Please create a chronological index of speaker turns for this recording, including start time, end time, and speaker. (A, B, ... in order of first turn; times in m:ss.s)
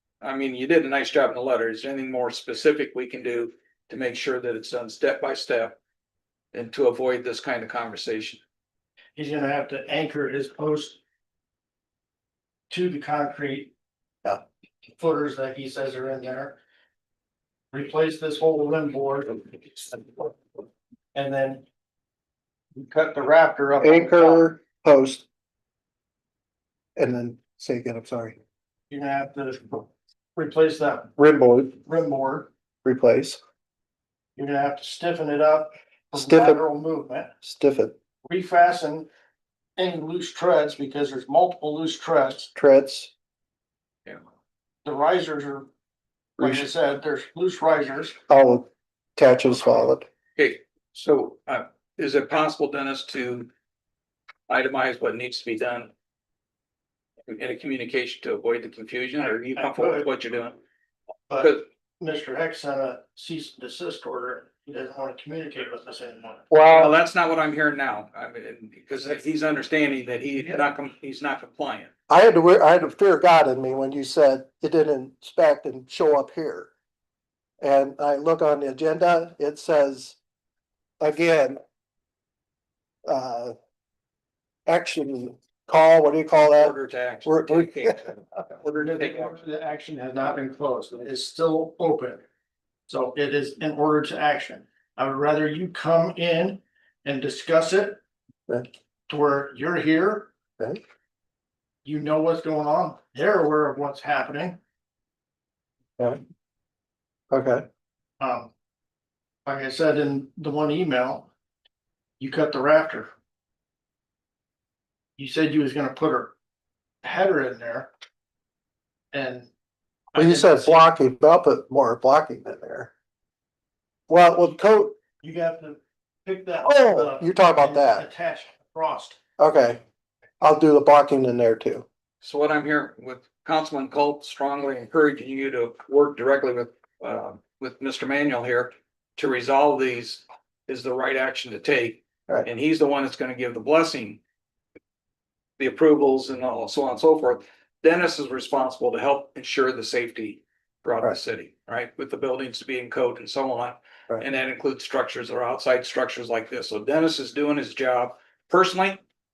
0:00.2-0:05.7 A
0:06.5-0:08.4 A
0:09.2-0:11.0 B
0:12.7-0:13.7 B
0:15.0-0:16.6 B
0:17.7-0:20.4 B
0:21.1-0:21.6 B
0:22.7-0:24.5 B
0:23.8-0:25.2 C
0:27.0-0:28.4 C
0:28.9-0:31.1 B
0:31.2-0:31.8 C
0:31.8-0:32.5 B
0:32.8-0:33.4 C
0:34.4-0:37.3 B
0:36.1-0:36.6 C
0:37.4-0:37.9 C
0:38.2-0:39.1 B
0:39.8-0:42.5 B
0:42.5-0:43.1 C
0:44.8-0:45.7 B
0:46.4-0:48.2 B
0:48.3-0:50.0 C
0:50.4-0:53.5 A
0:54.5-0:55.9 A
0:57.3-1:00.6 A
0:59.6-1:00.1 B
1:01.3-1:06.5 B
1:01.4-1:01.6 A
1:06.5-1:07.0 C
1:06.6-1:11.9 A
1:12.1-1:16.7 C
1:17.6-1:20.2 C
1:21.0-1:21.6 C
1:23.0-1:23.5 C
1:24.6-1:28.0 C
1:26.5-1:29.4 A
1:28.8-1:32.2 B
1:32.9-1:38.0 B
1:39.1-1:40.3 B
1:41.8-1:44.6 B
1:47.3-1:47.6 C
1:48.2-1:48.5 B
1:49.4-1:51.3 B
1:52.2-1:53.1 B
1:55.2-1:56.3 B
1:57.0-1:57.9 B
1:59.1-1:59.5 B
2:00.1-2:00.8 B
2:00.2-2:02.9 C
2:04.1-2:05.0 C
2:05.2-2:09.2 B
2:06.6-2:08.0 C
2:09.4-2:09.8 C
2:10.4-2:11.8 C
2:12.2-2:24.2 A
2:25.6-2:39.0 A